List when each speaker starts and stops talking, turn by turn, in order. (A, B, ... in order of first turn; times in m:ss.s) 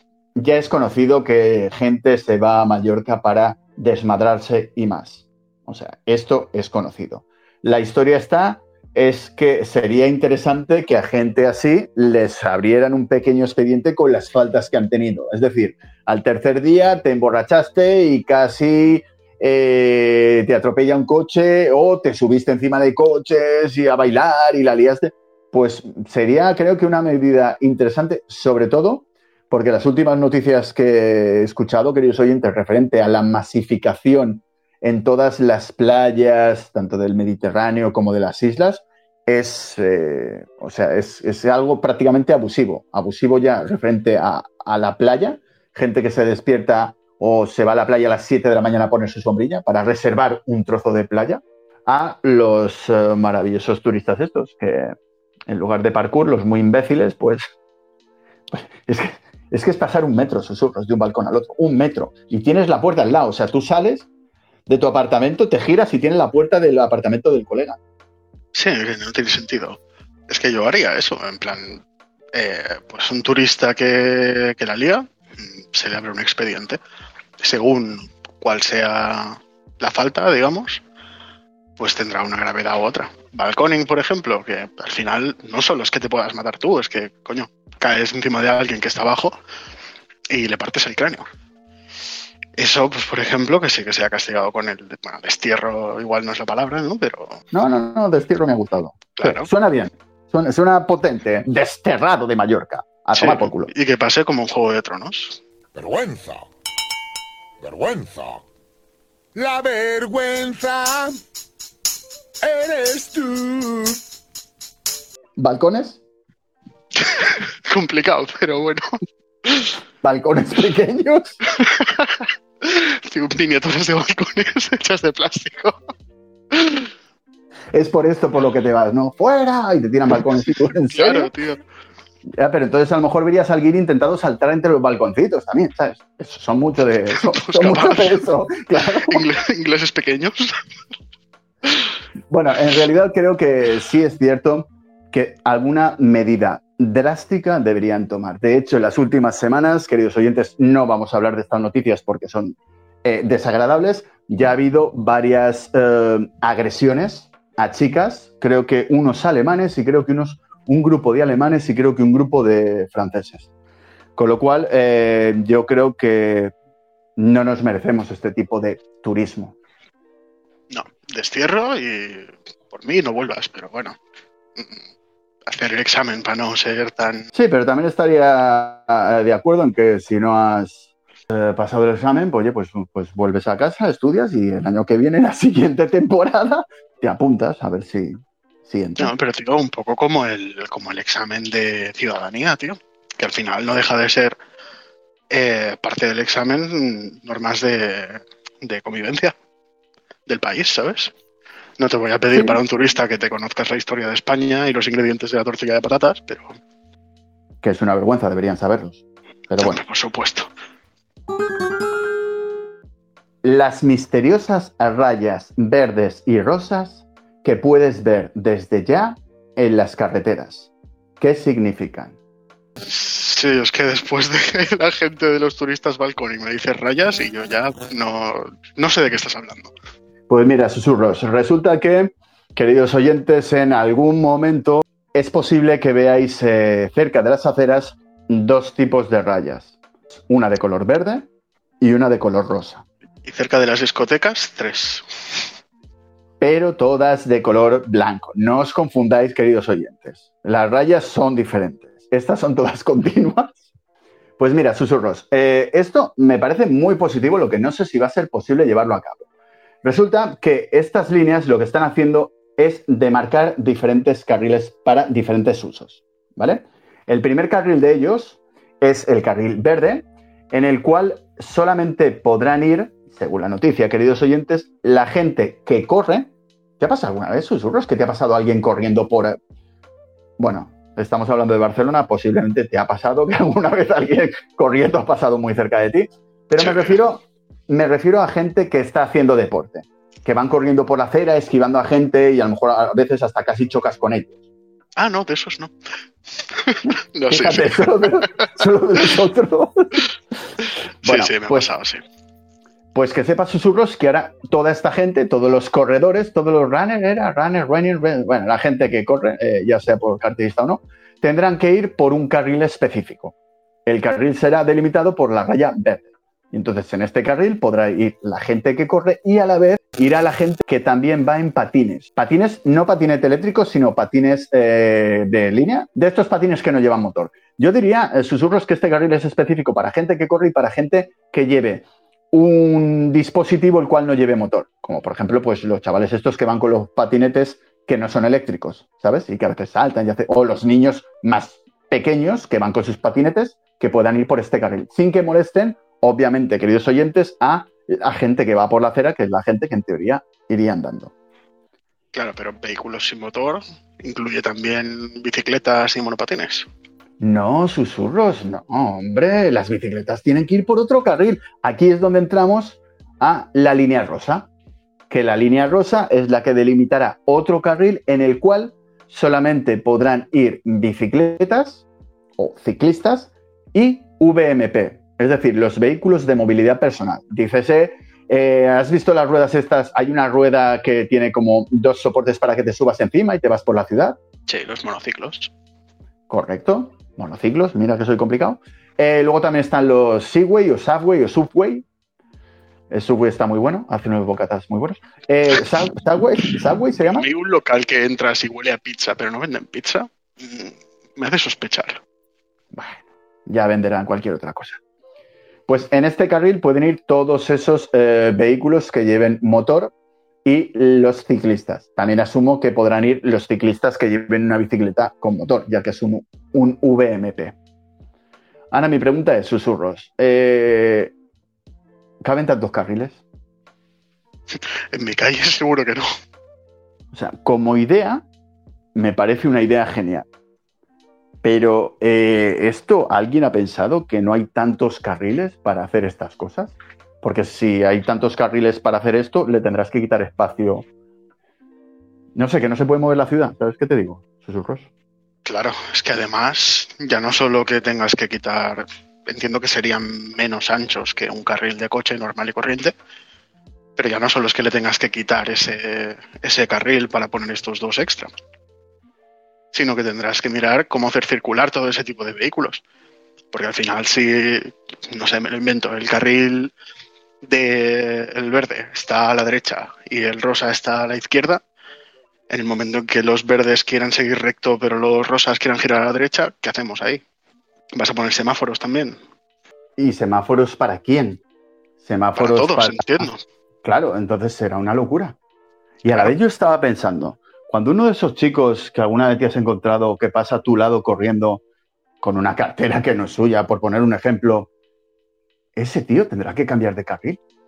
0:00.4-0:54.9 A
0:55.5-0:57.5 A
0:58.5-1:04.1 A
1:04.7-1:07.8 A
1:08.5-1:11.8 B
1:12.3-1:16.8 B
1:17.4-1:20.8 B
1:21.8-1:29.4 B
1:30.3-1:31.2 B
1:32.6-1:37.4 B
1:37.5-1:43.7 A
1:39.2-1:39.5 B
1:43.2-1:45.4 B
1:45.7-1:46.5 C
1:47.6-1:48.5 C
1:49.3-1:51.2 C
1:52.4-1:54.0 C
1:55.4-1:56.0 A
1:57.0-1:58.9 B
1:59.4-1:59.7 B
2:00.0-2:01.4 A
2:01.5-2:05.8 B
2:06.5-2:06.9 B
2:07.7-2:11.3 A
2:10.9-2:11.6 B
2:12.4-2:19.2 A
2:17.2-2:18.2 B
2:18.8-2:20.5 B
2:22.3-2:43.5 A
2:44.2-2:46.5 A
2:47.2-2:49.6 A
2:50.7-2:54.0 B
2:55.5-2:57.3 B
2:57.3-3:09.1 A
3:09.0-3:14.3 B
3:15.3-3:19.3 B
3:20.3-3:21.1 B
3:21.8-3:26.5 B
3:22.3-3:22.6 A
3:27.6-3:29.8 A
3:29.6-3:30.5 B
3:33.4-3:42.2 A
3:42.8-3:49.7 B
3:50.3-3:59.8 A
4:00.3-4:01.3 A
4:01.8-4:02.8 A
4:03.2-4:05.4 B
4:06.4-4:13.6 A
4:14.4-4:19.2 A
4:19.8-4:39.4 A
4:40.4-4:54.4 A
4:46.6-4:47.0 B
4:55.0-4:55.7 B
4:56.5-4:58.4 B
4:57.3-5:00.0 A
5:01.0-5:02.0 B
5:01.0-5:01.7 A
5:02.9-5:13.3 A
5:13.8-5:51.1 A
5:52.1-5:56.7 B
5:57.2-6:04.5 A
6:05.1-6:11.8 A
6:12.4-6:24.2 A
6:24.5-6:25.5 B
6:26.3-6:31.8 A
6:32.9-6:37.2 A
6:37.0-6:42.0 B
6:42.7-6:44.8 A
6:45.7-6:49.9 A
6:50.4-6:57.5 A
6:58.7-7:01.1 A
7:02.2-7:03.2 A
7:04.5-7:06.1 B
7:07.1-7:08.2 A
7:08.9-7:10.2 A
7:11.4-7:20.8 A
7:22.3-7:24.9 A
7:25.4-7:32.9 B
7:34.0-7:38.3 B
7:39.7-7:42.8 B
7:43.5-7:46.7 B
7:47.4-7:51.6 B
7:52.5-7:57.2 B
7:57.9-7:59.2 B
8:00.0-8:01.4 A
8:02.0-8:03.3 A
8:02.4-8:03.4 B
8:03.8-8:05.4 A
8:06.0-8:11.6 A
8:06.0-8:06.3 B
8:12.2-8:14.7 A
8:15.8-8:17.4 A